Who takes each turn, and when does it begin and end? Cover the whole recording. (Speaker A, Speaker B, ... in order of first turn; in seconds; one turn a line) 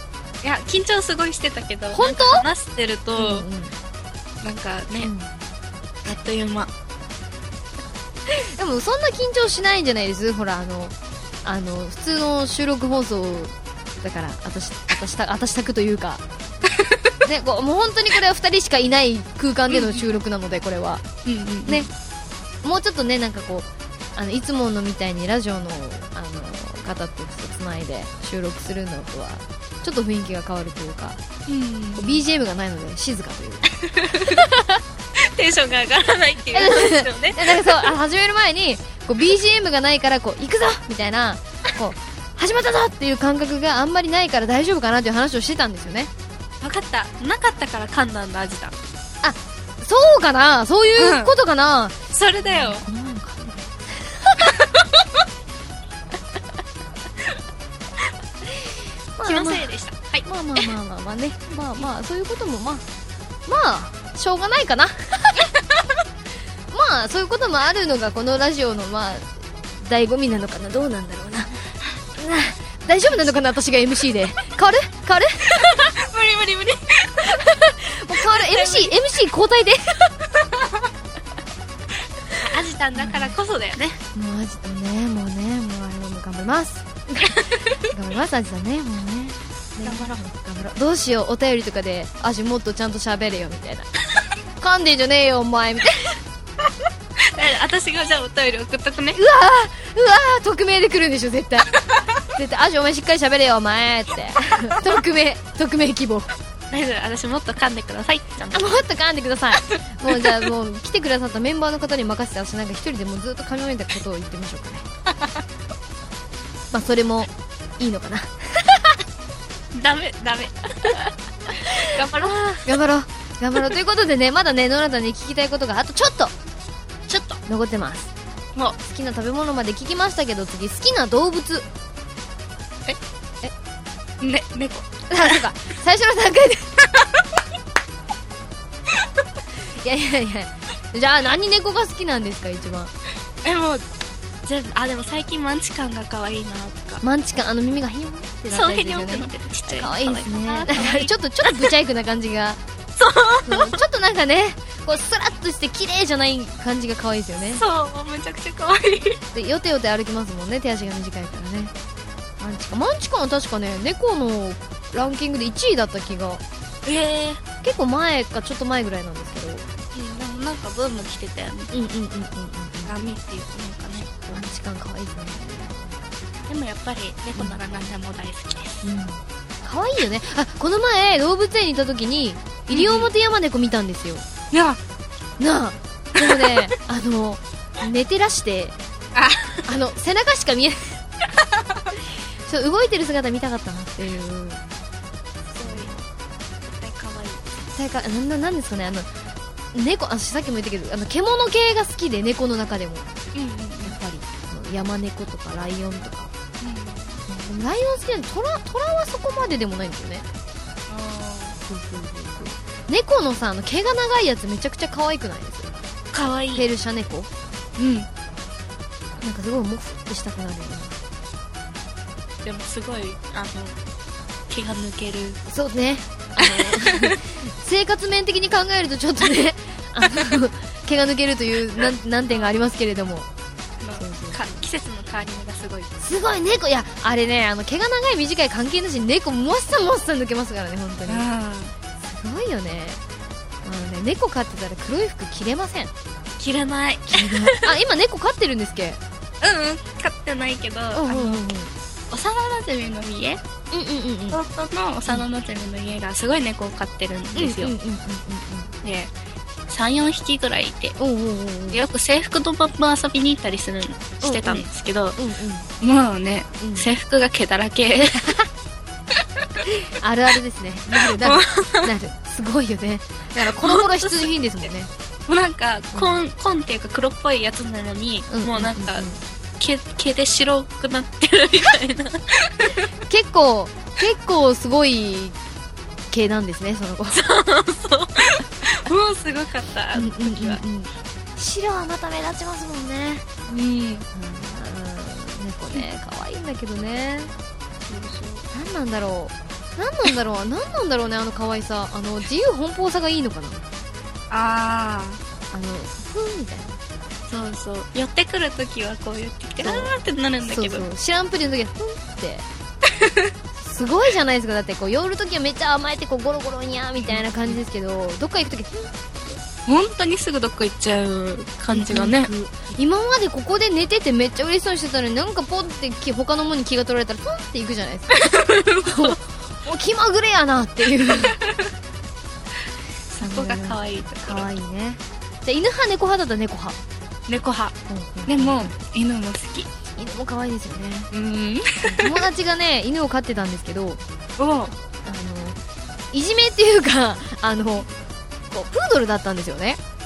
Speaker A: 0.4-3.5
Speaker B: 1.9-2.5
Speaker B: 3.2-3.7
Speaker A: 4.4-5.1
Speaker B: 5.0-5.3
Speaker A: 6.0-6.7
Speaker B: 8.3-10.9
Speaker B: 11.4-16.2
Speaker B: 17.3-21.0
Speaker A: 21.3-21.9
Speaker B: 22.6-31.2
Speaker A: 31.5-32.2
Speaker B: 32.0-33.6
Speaker A: 34.0-34.5
Speaker A: 35.2-37.9
Speaker B: 36.5-46.1
Speaker A: 46.6-48.7
Speaker B: 49.2-53.7
Speaker A: 51.0-51.3
Speaker A: 52.1-52.8
Speaker B: 59.2-59.7
Speaker A: 59.2-60.7
Speaker B: 60.2-62.8
Speaker B: 63.5-65.5
Speaker B: 66.7-71.5
Speaker B: 72.2-75.9
Speaker A: 75.5-77.3
Speaker B: 77.3-80.0
Speaker A: 78.2-78.9
Speaker A: 82.3-84.0
Speaker B: 83.0-83.3
Speaker B: 84.2-93.9
Speaker A: 89.8-90.2
Speaker B: 94.6-96.1
Speaker A: 97.3-99.2
Speaker B: 99.2-101.7
Speaker B: 102.3-106.3
Speaker A: 106.7-108.8
Speaker B: 108.5-114.8
Speaker B: 116.7-118.8
Speaker A: 119.7-121.0
Speaker B: 121.7-126.3
Speaker A: 121.8-122.6
Speaker A: 127.1-127.4
Speaker B: 127.5-128.1
Speaker B: 128.8-131.7
Speaker A: 134.2-135.4
Speaker B: 135.1-136.7
Speaker B: 139.8-142.9
Speaker A: 143.4-143.8
Speaker A: 144.4-147.0
Speaker B: 147.0-152.6
Speaker A: 148.5-151.7
Speaker A: 153.0-153.8
Speaker B: 153.5-157.6
Speaker A: 157.6-159.2
Speaker B: 159.3-161.7
Speaker B: 162.4-166.4
Speaker A: 166.8-167.4
Speaker B: 167.6-169.7
Speaker A: 169.9-171.7
Speaker B: 171.7-172.9
Speaker A: 172.9-174.3
Speaker B: 174.3-176.0
Speaker A: 176.5-178.8
Speaker B: 178.8-184.3
Speaker A: 182.7-183.1
Speaker A: 184.5-184.8
Speaker B: 185.4-188.8
Speaker A: 186.2-186.6
Speaker A: 189.2-189.6
Speaker B: 189.7-191.0
Speaker B: 192.5-194.6
Speaker A: 195.5-195.9
Speaker B: 195.6-196.1
Speaker A: 196.7-197.6
Speaker B: 197.7-199.1
Speaker B: 199.7-203.1
Speaker A: 203.3-204.0
Speaker B: 203.8-206.3
Speaker A: 206.6-207.2
Speaker B: 207.3-210.3
Speaker A: 210.9-211.6
Speaker B: 211.7-215.7
Speaker A: 216.1-216.7
Speaker B: 216.5-217.3
Speaker A: 217.8-218.1
Speaker B: 219.2-221.0
Speaker A: 222.4-223.7
Speaker A: 224.5-225.4
Speaker B: 225.5-233.3
Speaker A: 226.4-227.2
Speaker A: 232.3-232.6
Speaker A: 233.8-235.9
Speaker B: 234.0-234.7
Speaker B: 236.0-241.3
Speaker A: 241.1-241.7
Speaker B: 242.0-243.0
Speaker B: 243.6-245.9
Speaker A: 246.4-247.7
Speaker B: 247.1-249.0
Speaker A: 249.4-251.4
Speaker B: 250.9-251.7
Speaker A: 252.1-253.4
Speaker B: 253.7-254.4
Speaker A: 254.3-257.8
Speaker B: 257.4-258.7
Speaker A: 258.8-259.1
Speaker A: 259.7-261.0
Speaker B: 261.0-261.8
Speaker A: 261.7-265.2
Speaker B: 264.2-265.7
Speaker A: 265.8-268.3
Speaker B: 266.6-266.9
Speaker B: 270.0-274.9
Speaker A: 271.1-271.9
Speaker A: 273.6-274.2
Speaker A: 275.3-279.1
Speaker B: 275.9-276.2
Speaker B: 278.3-279.2
Speaker A: 279.6-282.8
Speaker B: 283.1-285.4
Speaker B: 286.1-287.2
Speaker A: 287.1-290.6
Speaker B: 289.9-293.3
Speaker A: 293.5-294.1
Speaker B: 294.1-297.3
Speaker A: 297.9-298.4
Speaker B: 298.5-303.6
Speaker A: 304.3-305.2
Speaker B: 305.5-306.8
Speaker A: 307.3-310.9
Speaker B: 309.6-309.9
Speaker B: 310.4-312.5
Speaker A: 313.0-313.3
Speaker B: 313.6-318.9
Speaker A: 317.1-317.6
Speaker A: 319.7-322.3
Speaker B: 321.7-331.4
Speaker A: 328.2-329.2
Speaker A: 331.3-331.6
Speaker A: 333.1-334.5
Speaker B: 333.2-336.8
Speaker A: 337.3-339.7
Speaker B: 337.9-338.7
Speaker B: 340.0-341.1
Speaker A: 341.1-342.3
Speaker B: 341.8-344.0
Speaker A: 344.4-344.7
Speaker B: 345.1-345.6
Speaker B: 346.1-347.9
Speaker B: 348.5-349.8